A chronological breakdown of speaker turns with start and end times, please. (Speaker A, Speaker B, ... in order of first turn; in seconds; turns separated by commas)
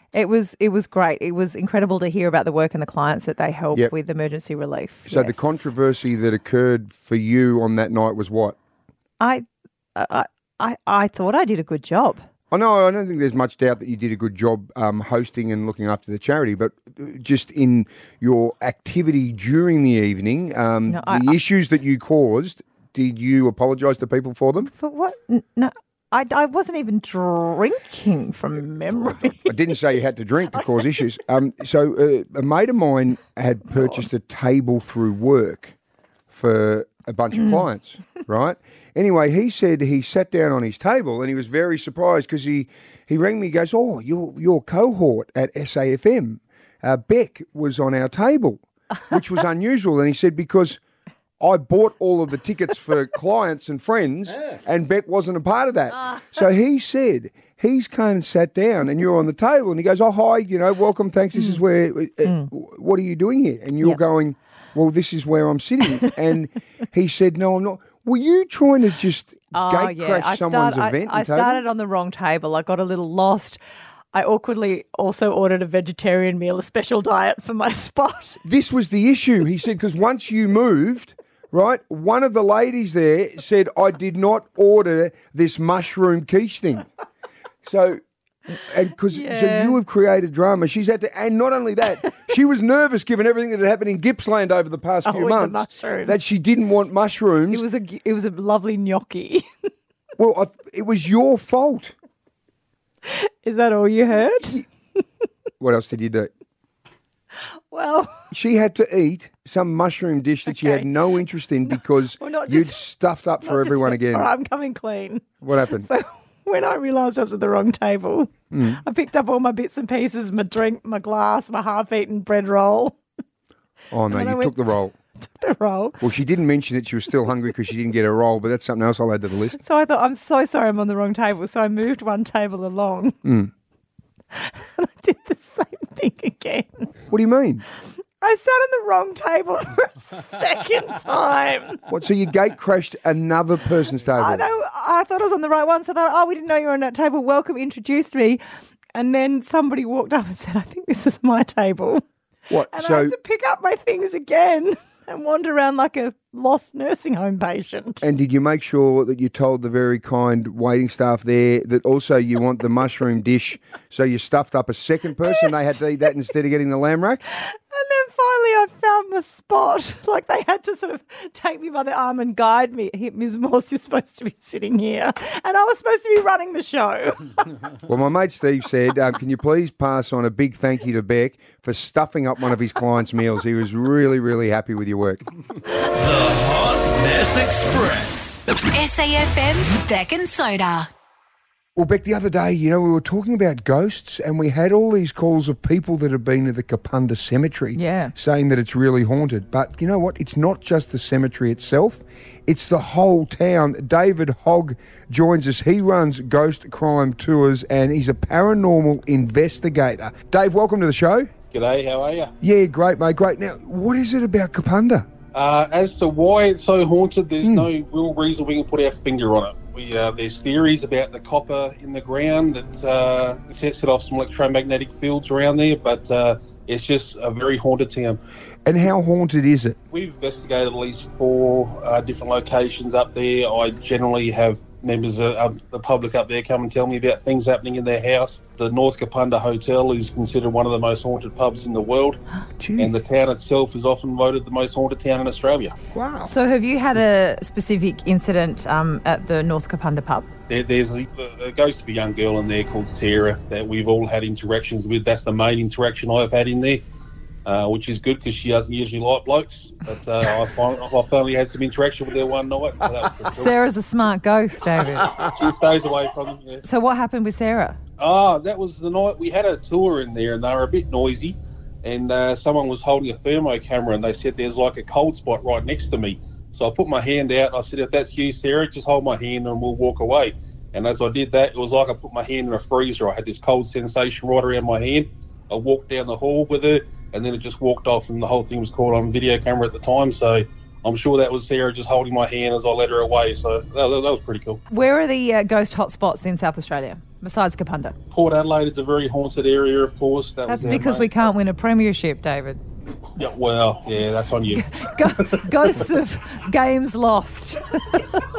Speaker A: 0.1-5.6, Speaker B: 5.0-8.6, Speaker A: 9.2-12.2, Speaker B: 12.5-24.7, Speaker A: 20.9-21.3, Speaker A: 24.7-29.5, Speaker B: 29.2-35.7, Speaker A: 33.7-34.0, Speaker B: 36.3-50.8, Speaker A: 37.4-37.6, Speaker B: 51.4-71.6, Speaker A: 61.3-61.6, Speaker A: 62.2-62.5, Speaker A: 69.5-73.6, Speaker A: 74.1-78.4, Speaker B: 78.4-86.8, Speaker B: 87.6-97.6, Speaker A: 89.1-89.8, Speaker A: 95.0-96.2, Speaker A: 97.5-99.5, Speaker B: 100.2-101.9, Speaker A: 103.0-104.6, Speaker B: 105.6-106.3, Speaker A: 107.7-108.2, Speaker B: 108.3-114.3, Speaker A: 110.5-110.9, Speaker A: 111.7-112.8, Speaker A: 113.4-123.0, Speaker B: 115.4-115.9, Speaker B: 118.5-118.8, Speaker B: 123.9-124.9, Speaker A: 124.1-124.7, Speaker A: 125.2-126.0, Speaker B: 126.0-129.6, Speaker A: 129.6-133.2, Speaker B: 133.2-133.5, Speaker A: 134.3-136.9, Speaker B: 137.1-137.6, Speaker A: 138.2-141.8, Speaker B: 141.9-144.4, Speaker A: 144.2-148.4, Speaker A: 148.9-152.0, Speaker B: 152.5-153.1, Speaker A: 152.7-158.0, Speaker B: 158.0-167.2, Speaker A: 165.3-165.5, Speaker A: 167.4-177.4, Speaker B: 177.8-185.2, Speaker C: 185.8-188.4, Speaker D: 188.7-190.9, Speaker B: 191.8-211.3, Speaker A: 197.7-198.1, Speaker E: 211.5-212.3, Speaker B: 212.4-215.1, Speaker E: 215.3-228.2, Speaker B: 217.4-217.7, Speaker B: 228.7-229.8, Speaker E: 229.9-242.2, Speaker B: 242.6-242.9, Speaker E: 242.8-245.7, Speaker B: 245.9-246.3, Speaker A: 246.2-250.3, Speaker E: 250.5-256.8, Speaker E: 257.4-263.5, Speaker A: 263.3-265.1, Speaker E: 265.2-266.6, Speaker A: 266.6-267.8, Speaker E: 268.0-294.6, Speaker A: 294.7-297.9, Speaker E: 298.1-301.1, Speaker A: 300.5-302.6, Speaker E: 303.2-304.7, Speaker A: 304.5-308.0